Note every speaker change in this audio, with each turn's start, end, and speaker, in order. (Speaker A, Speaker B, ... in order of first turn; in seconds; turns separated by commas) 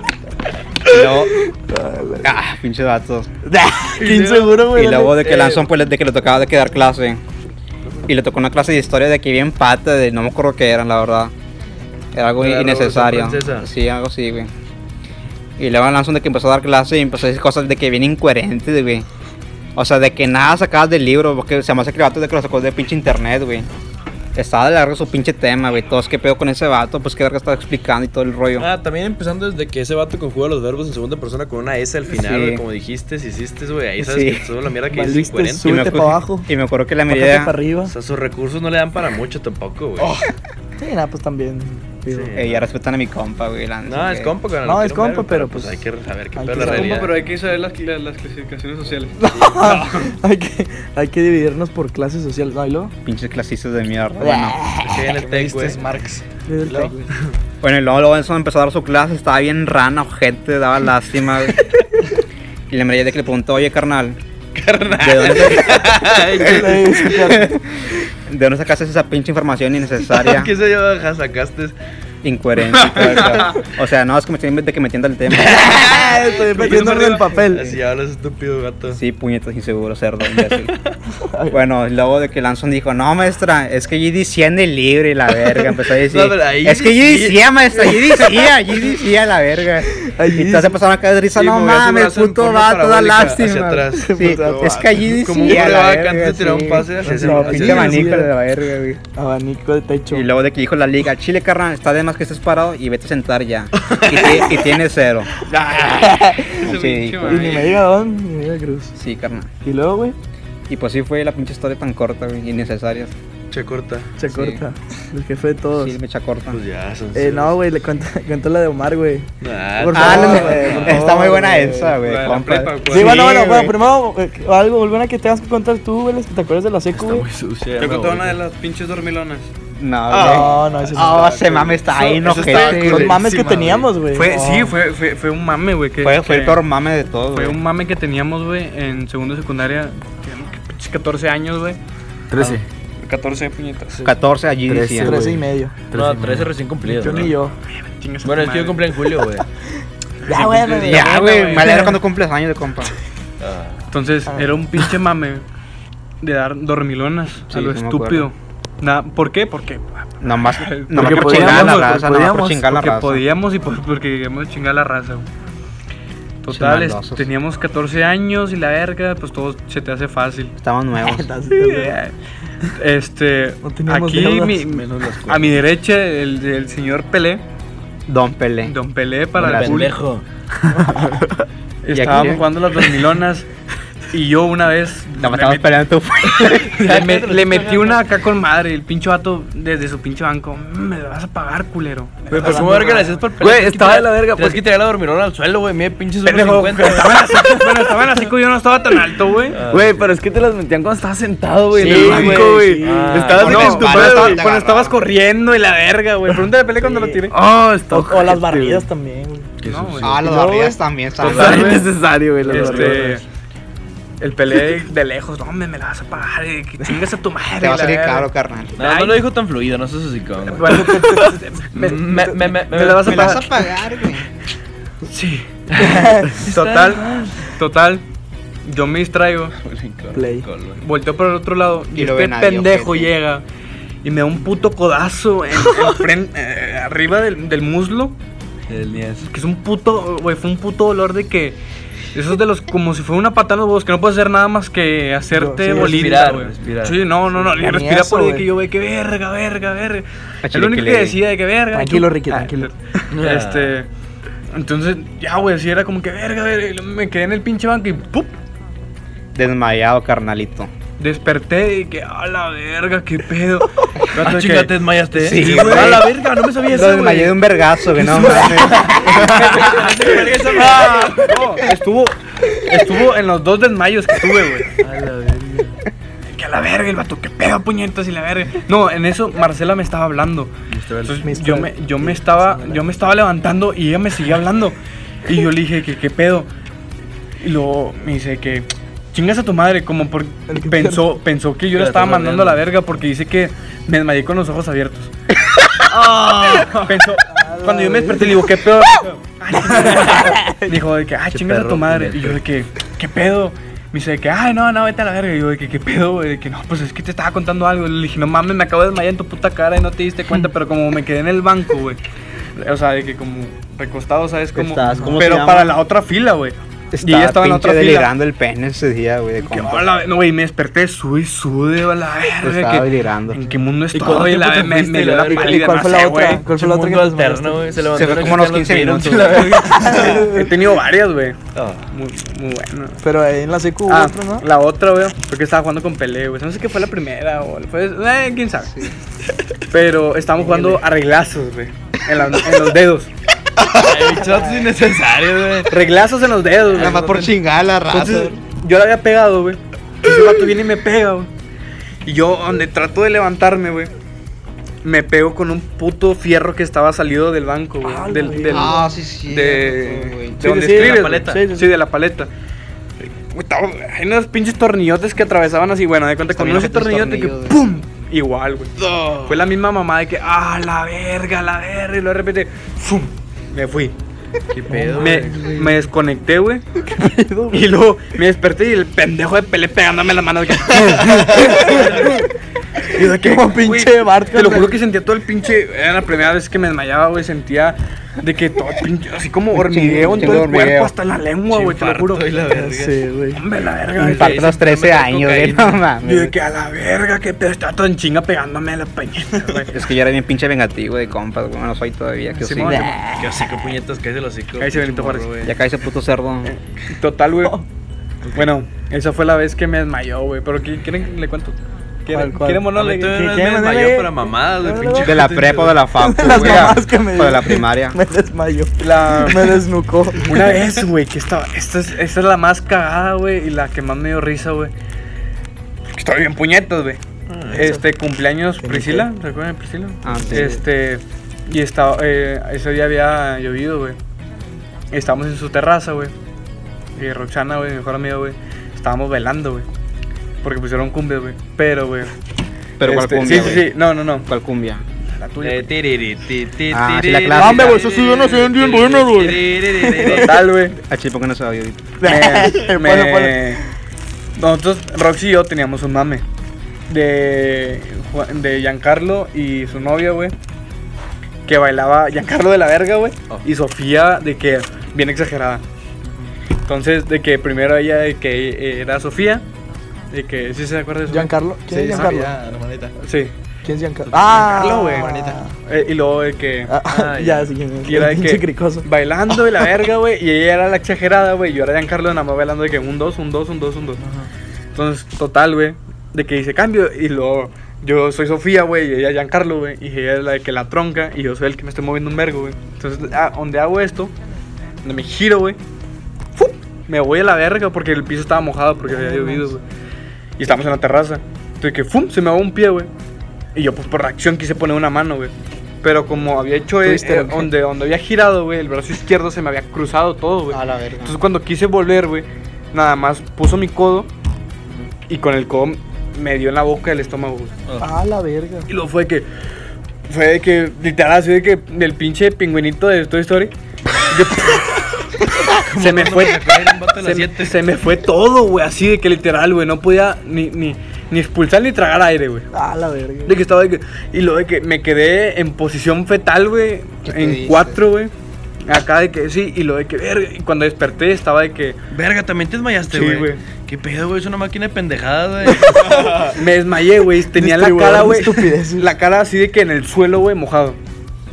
Speaker A: 0.8-1.4, Speaker B: 1.3-2.3, Speaker A: 2.2-3.3, Speaker B: 3.5-5.4, Speaker C: 4.0-4.6, Speaker A: 4.7-7.2, Speaker A: 8.1-11.3, Speaker A: 12.1-14.5, Speaker C: 12.4-13.7, Speaker A: 15.6-19.0, Speaker A: 19.8-23.7, Speaker A: 24.3-28.7, Speaker C: 28.6-35.8, Speaker A: 32.1-32.6, Speaker A: 34.0-34.5, Speaker B: 34.9-36.5, Speaker A: 35.6-37.5, Speaker B: 37.1-37.9, Speaker C: 37.9-40.1, Speaker B: 40.8-42.3, Speaker C: 42.1-42.7, Speaker A: 42.3-44.3, Speaker C: 43.9-47.2, Speaker B: 44.6-45.8, Speaker B: 46.4-47.0, Speaker D: 46.6-50.1, Speaker B: 49.2-52.9, Speaker A: 53.0-54.6, Speaker B: 54.2-55.0, Speaker C: 54.8-55.9, Speaker E: 55.0-56.9, Speaker B: 56.5-57.1, Speaker A: 57.6-61.6, Speaker A: 62.7-64.2, Speaker D: 64.6-65.5, Speaker A: 65.0-70.5, Speaker C: 65.1-67.0, Speaker B: 66.4-67.5, Speaker C: 70.1-71.7, Speaker A: 72.2-76.0, Speaker D: 72.8-73.5, Speaker B: 75.4-77.7, Speaker C: 75.6-79.0, Speaker D: 76.3-77.4, Speaker A: 78.9-80.7, Speaker B: 81.3-81.6, Speaker A: 81.5-99.0, Speaker C: 86.1-87.4, Speaker B: 89.9-90.8, Speaker D: 91.3-92.3, Speaker C: 91.8-98.1, Speaker B: 94.0-94.8, Speaker B: 97.0-98.3, Speaker B: 99.1-100.3, Speaker A: 100.1-105.3, Speaker C: 103.9-104.4, Speaker D: 105.5-107.8, Speaker B: 105.9-106.6, Speaker A: 106.6-107.5, Speaker B: 107.2-108.9, Speaker A: 109.0-109.5, Speaker B: 109.6-110.2, Speaker A: 110.7-113.1, Speaker C: 113.5-114.1, Speaker B: 114.2-115.9, Speaker A: 114.3-114.6, Speaker A: 115.7-116.6, Speaker C: 116.5-117.6, Speaker B: 117.1-121.9, Speaker C: 119.4-121.1, Speaker A: 119.9-123.8, Speaker E: 121.0-121.6, Speaker D: 121.9-123.2, Speaker B: 122.9-127.2, Speaker C: 126.9-128.4, Speaker D: 127.8-129.5, Speaker A: 129.7-133.2, Speaker C: 130.1-130.5, Speaker B: 130.2-131.8, Speaker C: 132.2-133.8, Speaker E: 132.2-133.8, Speaker B: 132.6-134.7, Speaker D: 134.1-136.6, Speaker A: 136.0-137.6, Speaker D: 137.3-141.8, Speaker E: 142.3-142.6, Speaker D: 143.0-144.1, Speaker A: 144.0-145.3, Speaker E: 144.7-146.5, Speaker B: 145.0-145.7, Speaker C: 145.9-147.3, Speaker B: 146.8-147.5, Speaker D: 147.7-148.8, Speaker C: 148.2-149.4, Speaker D: 150.2-151.9, Speaker B: 150.3-151.9, Speaker A: 150.8-152.9, Speaker C: 153.4-153.8, Speaker D: 153.9-155.4, Speaker D: 156.2-162.1, Speaker A: 157.5-158.3, Speaker A: 160.2-163.2, Speaker E: 161.0-162.6, Speaker D: 162.6-165.3, Speaker D: 166.4-170.5, Speaker A: 166.5-167.3, Speaker A: 170.6-171.3, Speaker B: 171.0-171.9, Speaker D: 171.5-172.1, Speaker D: 172.7-177.4, Speaker B: 173.6-174.7, Speaker C: 174.7-175.6, Speaker A: 178.1-178.7, Speaker D: 178.6-179.9, Speaker A: 179.4-179.8, Speaker C: 179.4-180.2, Speaker B: 180.8-181.3, Speaker D: 181.8-183.5, Speaker A: 181.9-182.5, Speaker D: 184.1-185.8, Speaker A: 185.2-186.8, Speaker C: 186.3-188.1, Speaker D: 186.5-193.1, Speaker C: 192.3-197.8, Speaker E: 192.3-192.8, Speaker B: 192.5-193.0, Speaker E: 193.4-194.6, Speaker D: 196.2-199.6, Speaker C: 199.5-200.1, Speaker E: 199.7-204.3, Speaker C: 201.7-204.4, Speaker D: 201.8-202.5, Speaker B: 201.8-203.4, Speaker D: 203.3-207.3, Speaker A: 204.3-204.8, Speaker B: 206.8-207.2, Speaker E: 207.3-208.9, Speaker B: 207.9-209.5, Speaker C: 209.6-210.1, Speaker D: 209.6-210.2, Speaker A: 210.0-211.8, Speaker B: 210.2-210.8, Speaker C: 211.2-211.8, Speaker E: 211.2-213.2, Speaker D: 211.2-211.9, Speaker D: 212.4-213.2, Speaker C: 212.5-213.1, Speaker D: 214.2-219.2, Speaker A: 217.6-218.8, Speaker C: 218.8-223.4, Speaker D: 220.5-223.7, Speaker A: 223.0-224.2, Speaker D: 225.1-228.0, Speaker C: 225.7-227.3, Speaker B: 225.8-226.4, Speaker D: 228.7-229.5, Speaker C: 229.6-230.8, Speaker B: 230.1-230.4, Speaker D: 230.8-233.4, Speaker A: 231.9-233.1, Speaker D: 234.0-238.2, Speaker C: 238.7-239.3, Speaker D: 239.2-241.6, Speaker D: 242.1-253.9, Speaker B: 245.3-246.2, Speaker C: 245.7-247.2, Speaker B: 247.4-248.5, Speaker A: 250.4-251.2, Speaker B: 251.7-252.7, Speaker C: 253.1-253.8, Speaker D: 254.5-258.4, Speaker A: 259.3-260.7, Speaker D: 261.0-266.1, Speaker C: 264.1-267.3, Speaker A: 265.2-266.1, Speaker A: 266.6-269.4, Speaker C: 268.0-271.6, Speaker D: 269.1-274.7, Speaker C: 274.8-275.8, Speaker D: 276.3-280.5, Speaker C: 280.7-281.2, Speaker D: 281.0-286.5, Speaker B: 281.2-282.9, Speaker D: 287.4-295.1, Speaker B: 290.5-291.0, Speaker C: 291.7-292.8, Speaker C: 295.9-297.0, Speaker D: 296.8-312.0, Speaker B: 297.3-298.5, Speaker C: 301.3-302.4, Speaker D: 312.6-318.1, Speaker A: 314.5-315.8, Speaker A: 316.9-319.9, Speaker D: 319.4-326.5, Speaker A: 322.4-323.4, Speaker C: 323.9-330.3, Speaker B: 325.3-327.7, Speaker A: 327.9-329.8, Speaker B: 329.7-330.5, Speaker D: 330.0-331.4, Speaker C: 331.5-331.9, Speaker D: 331.9-333.0, Speaker B: 333.0-334.4, Speaker D: 333.9-338.7, Speaker A: 338.6-338.9, Speaker D: 339.7-343.1, Speaker B: 340.4-340.8, Speaker C: 343.7-345.8, Speaker D: 345.7-347.3, Speaker A: 346.7-348.3, Speaker D: 347.9-351.3, Speaker D: 352.0-353.9, Speaker D: 354.8-362.3, Speaker B: 357.8-358.8, Speaker A: 358.5-360.4, Speaker B: 360.4-361.7, Speaker C: 360.6-361.4, Speaker D: 363.2-368.7, Speaker A: 366.3-367.6, Speaker C: 368.8-369.5, Speaker D: 369.2-373.9, Speaker C: 374.5-375.8, Speaker B: 374.7-375.5, Speaker D: 375.0-376.6, Speaker B: 376.9-377.6, Speaker D: 377.5-382.2, Speaker B: 381.3-382.2, Speaker C: 381.6-382.0, Speaker D: 382.9-392.3, Speaker B: 383.0-384.7, Speaker A: 389.5-390.9, Speaker C: 391.5-392.9, Speaker B: 392.5-393.4, Speaker D: 393.4-394.4, Speaker C: 394.0-395.8, Speaker A: 394.0-396.3, Speaker D: 396.0-399.8, Speaker A: 399.7-403.0, Speaker D: 402.3-403.0, Speaker B: 402.6-403.5, Speaker C: 403.1-405.5, Speaker D: 404.6-405.4, Speaker A: 405.4-406.5, Speaker D: 406.4-407.6, Speaker D: 408.3-413.2, Speaker B: 412.1-415.2, Speaker C: 412.7-415.8, Speaker A: 415.0-418.0, Speaker B: 416.0-420.4, Speaker D: 418.8-419.6, Speaker D: 420.2-424.7, Speaker D: 425.9-434.0, Speaker C: 427.3-427.8, Speaker B: 428.6-429.1, Speaker A: 430.0-430.6, Speaker D: 434.9-436.1, Speaker D: 436.9-439.7, Speaker D: 440.4-442.1, Speaker A: 442.8-443.7, Speaker D: 442.8-444.2, Speaker A: 444.2-444.8, Speaker D: 445.2-445.7, Speaker C: 445.4-450.4, Speaker A: 446.7-447.8, Speaker B: 447.4-450.3, Speaker D: 447.4-447.8, Speaker D: 450.1-450.8, Speaker A: 450.7-452.0, Speaker B: 452.0-453.6, Speaker D: 452.0-453.6, Speaker D: 454.4-456.2, Speaker D: 456.9-460.3, Speaker D: 461.4-465.6, Speaker D: 466.6-469.4, Speaker D: 470.1-471.3, Speaker B: 471.1-472.3, Speaker E: 471.7-472.9, Speaker D: 473.0-473.3, Speaker B: 473.6-475.5, Speaker E: 474.1-475.4, Speaker D: 474.3-476.7, Speaker B: 476.7-478.9, Speaker C: 476.9-477.5, Speaker D: 477.9-484.0, Speaker D: 484.7-494.1, Speaker D: 494.8-495.6, Speaker D: 496.3-499.6, Speaker B: 498.9-499.5, Speaker D: 500.4-502.9, Speaker D: 503.5-514.1, Speaker B: 506.8-507.5, Speaker A: 510.5-511.2, Speaker D: 515.1-517.6, Speaker B: 517.8-518.7, Speaker D: 518.7-519.3, Speaker D: 520.1-523.5, Speaker D: 524.1-532.5, Speaker C: 525.6-527.7, Speaker B: 532.5-533.4, Speaker D: 533.2-538.1, Speaker A: 537.0-537.8, Speaker D: 538.6-541.8, Speaker C: 541.9-546.4, Speaker D: 542.8-543.4, Speaker D: 546.3-550.8, Speaker B: 547.3-548.9